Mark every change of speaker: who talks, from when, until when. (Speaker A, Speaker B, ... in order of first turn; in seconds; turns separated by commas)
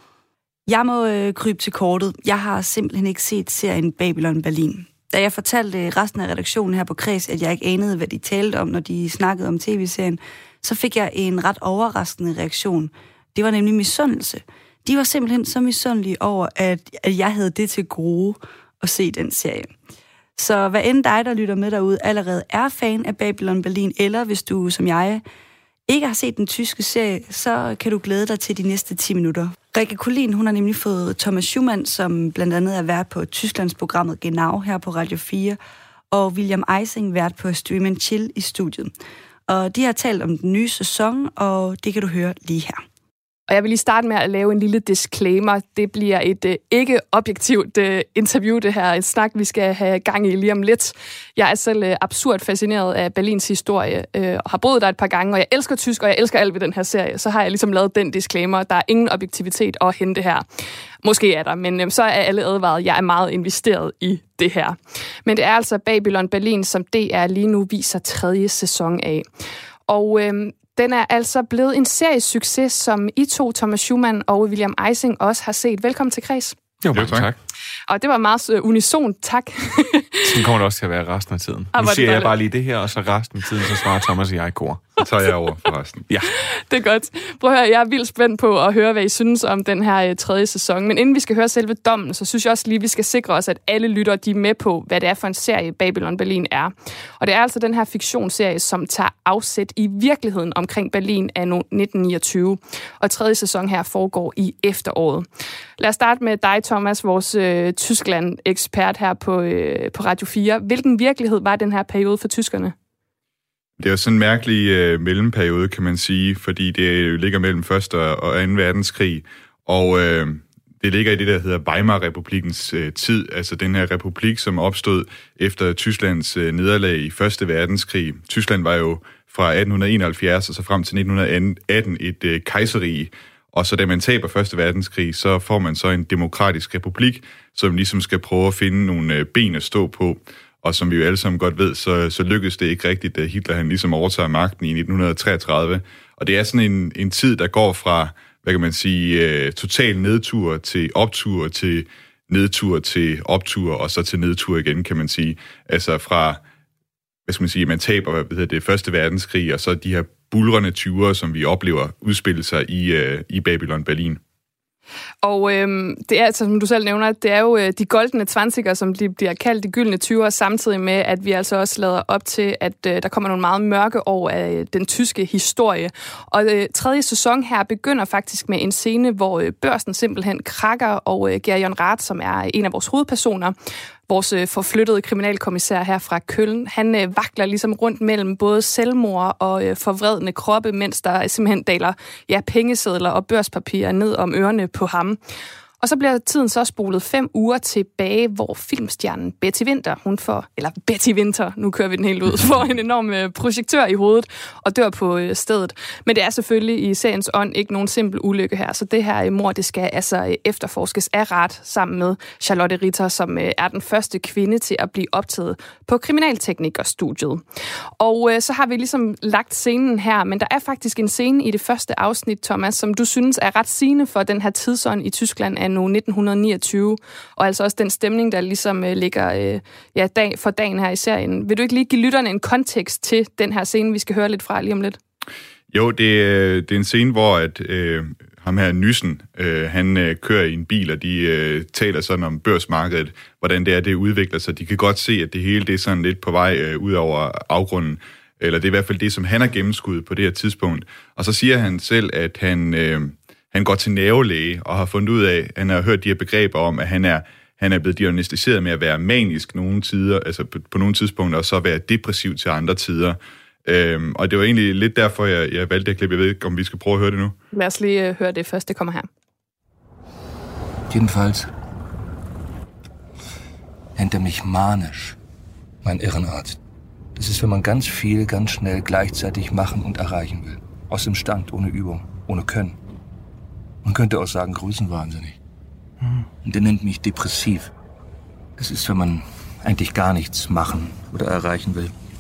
Speaker A: 0.7-19.7, Speaker A: 20.4-25.2, Speaker A: 25.9-35.6, Speaker A: 36.1-38.9, Speaker A: 39.5-42.8, Speaker B: 43.5-60.4, Speaker B: 61.0-69.2, Speaker B: 69.9-76.6, Speaker C: 76.8-77.4, Speaker D: 76.9-77.3, Speaker B: 77.9-80.5, Speaker C: 80.2-84.9, Speaker B: 81.7-82.3, Speaker D: 85.0-86.0, Speaker B: 86.7-105.2, Speaker B: 105.8-112.7, Speaker D: 113.8-156.4, Speaker D: 157.2-164.2, Speaker B: 165.2-183.5, Speaker B: 184.1-195.2, Speaker B: 195.8-217.4, Speaker B: 218.0-235.0, Speaker D: 235.7-267.3, Speaker B: 267.5-269.1, Speaker E: 270.9-271.5, Speaker E: 273.9-275.2, Speaker E: 275.8-276.6, Speaker E: 277.1-282.8, Speaker E: 283.8-285.4, Speaker E: 286.4-287.7, Speaker E: 288.6-291.9